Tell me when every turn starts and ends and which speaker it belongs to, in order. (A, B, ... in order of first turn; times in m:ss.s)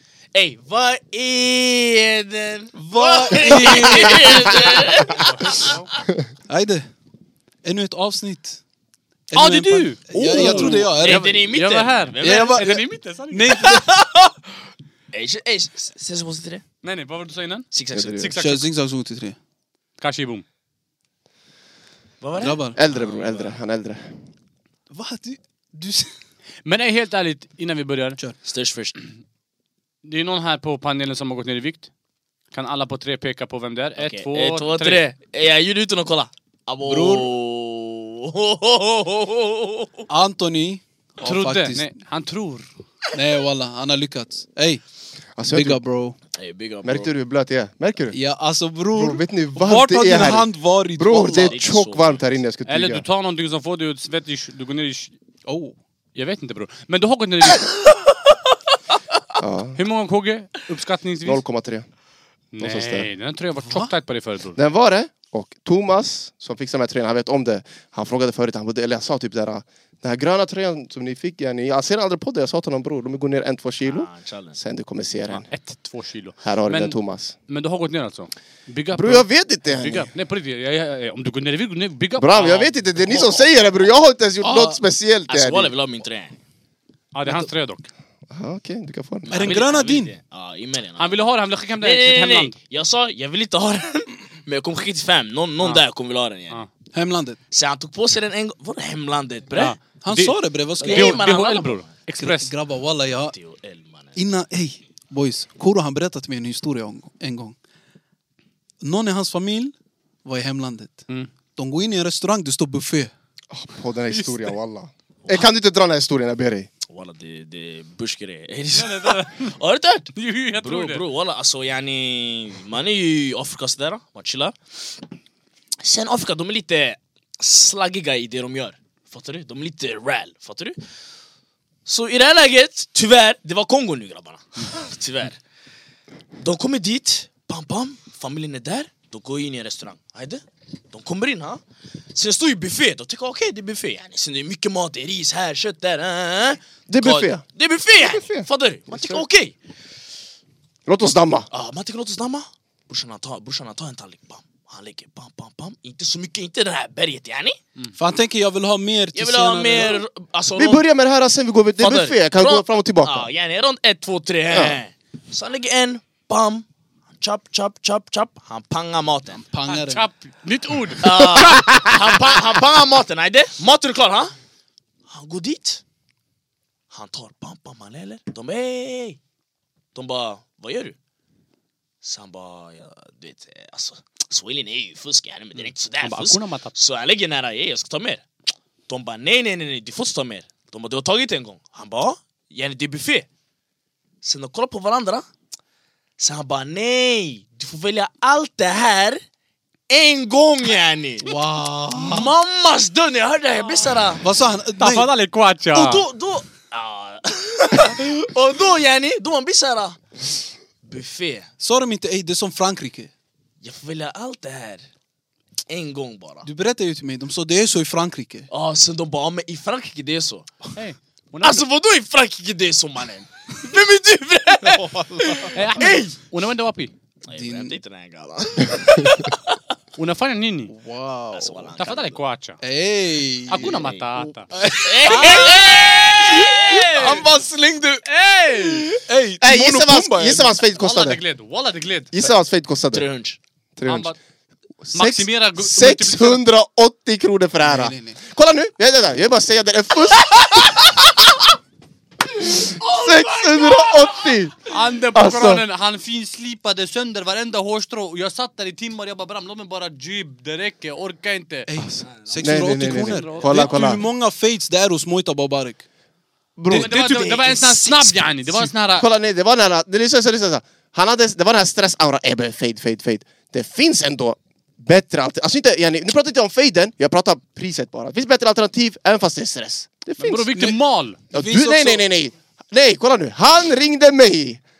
0:00.3-0:05.8 A
0:02.7-0:04.9 B
0:05.2-0:05.9 C
0:06.5-0:06.9 B
0:07.6-0:08.6 B
0:09.3-0:11.3 B
0:09.3-0:13.7 C
0:10.2-0:12.7 A
0:12.2-0:13.9 B
0:13.6-0:14.3 A
0:15.1-0:16.6 A
0:16.8-0:18.7 C
0:17.7-0:18.2 A
0:17.9-0:18.3 D
0:18.4-0:19.4 B
0:20.0-0:20.4 C
0:22.2-0:23.6 A
0:22.4-0:22.8 B
0:22.8-0:24.1 D
0:24.9-0:26.1 B
0:26.6-0:28.2 C
0:28.4-0:29.0 A
0:30.0-0:31.9 C
0:32.5-0:35.0 C
0:34.0-0:40.1 A
0:36.9-0:37.3 B
0:40.1-0:41.9 B
0:41.2-0:42.7 C
0:43.1-0:44.8 B
0:45.4-0:45.8 D
0:45.5-0:46.2 B
0:46.4-0:47.1 A
0:46.8-0:48.2 D
0:48.1-0:51.6 B
0:48.9-0:53.0 D
0:51.3-0:52.2 A
0:52.7-0:55.1 C
0:55.5-0:55.8 B
0:56.2-0:57.7 C
0:57.6-0:58.1 A
0:59.4-0:59.8 D
0:59.8-1:01.4 C
1:01.2-1:01.9 D
1:02.5-1:04.6 C
1:02.6-1:03.1 D
1:03.6-1:03.9 B
1:04.6-1:15.5 D
1:13.8-1:14.6 A
1:15.3-1:17.0 C
1:16.4-1:17.4 D
1:17.5-1:22.7 C
1:19.0-1:20.1 D
1:22.2-1:25.7 D
1:23.0-1:23.5 A
1:24.4-1:24.8 B
1:25.3-1:26.4 A
1:27.1-1:27.9 C
1:28.3-1:29.3 D
1:29.2-1:31.2 A
1:29.3-1:30.1 B
1:29.4-1:29.8 C
1:31.0-1:32.5 C
1:31.8-1:36.6 A
1:36.9-1:37.4 B
1:37.5-1:39.8 A
1:39.5-1:42.5 C
1:40.0-1:41.3 B
1:40.8-1:41.9 A
1:42.2-1:43.4 B
1:43.3-1:44.2 A
1:44.2-1:47.6 B
1:48.8-1:49.7 B
1:50.2-1:53.1 B
1:53.5-1:56.7 D
1:56.9-2:04.6 A
1:58.7-1:59.6 C
2:00.2-2:01.0 C
2:05.8-2:10.8 A
2:11.9-2:15.4 A
2:16.4-2:21.6 A
2:22.1-2:29.6 A
2:26.9-2:27.4 D
2:28.0-2:28.5 D
2:30.9-2:31.5 D
2:31.5-2:37.6 A
2:38.0-2:40.0 B
2:39.2-2:40.8 A
2:40.6-2:43.3 D
2:41.8-2:46.6 A
2:44.5-2:44.8 D
2:47.2-2:49.4 A
2:49.4-2:50.1 B
2:49.7-2:51.7 C
2:51.0-2:54.3 A
2:55.1-2:55.8 A
2:56.9-2:59.2 A
3:00.0-3:01.0 A
3:02.0-3:08.2 A
3:06.0-3:06.7 C
3:08.9-3:13.3 A
3:14.2-3:15.3 A
3:16.2-3:19.2 A
3:19.9-3:21.3 A
3:21.2-3:22.3 B
3:22.0-3:24.2 A
3:24.2-3:25.1 B
3:24.8-3:26.0 C
3:25.7-3:31.5 A
3:31.6-3:33.1 B
3:33.6-3:34.8 A
3:35.7-3:36.5 A
3:36.4-3:38.5 B
3:38.5-3:40.7 A
3:40.7-3:41.6 C
3:41.4-3:46.1 A
3:45.1-3:45.5 B
3:45.5-3:46.9 C
3:47.3-3:49.6 A
3:47.3-3:47.8 B
3:50.0-3:50.7 C
3:50.7-3:51.7 B
3:51.3-3:52.2 A
3:51.8-3:52.6 C
3:52.6-3:53.9 B
3:53.5-3:54.5 C
3:53.7-3:54.1 A
3:54.5-3:58.1 B
3:54.8-3:57.1 A
3:55.0-3:57.3 C
3:58.0-3:59.0 C
3:58.6-4:00.6 B
3:59.4-4:01.2 D
4:00.8-4:02.2 C
4:02.1-4:03.1 D
4:02.9-4:03.4 A
4:03.8-4:04.1 D
4:03.9-4:04.2 C
4:04.8-4:11.2 D
4:04.9-4:06.4 C
4:07.6-4:08.2 B
4:12.3-4:15.6 D
4:12.8-4:14.3 A
4:14.7-4:21.7 C
4:21.7-4:25.8 B
4:21.8-4:24.0 D
4:22.1-4:22.7 A
4:22.8-4:23.7 C
4:23.6-4:23.9 A
4:26.6-4:26.9 D
4:26.7-4:27.5 B
4:26.7-4:29.1 C
4:26.8-4:28.2 A
4:29.0-4:40.5 D
4:40.2-4:41.2 C
4:41.3-4:42.1 B
4:41.3-4:44.6 D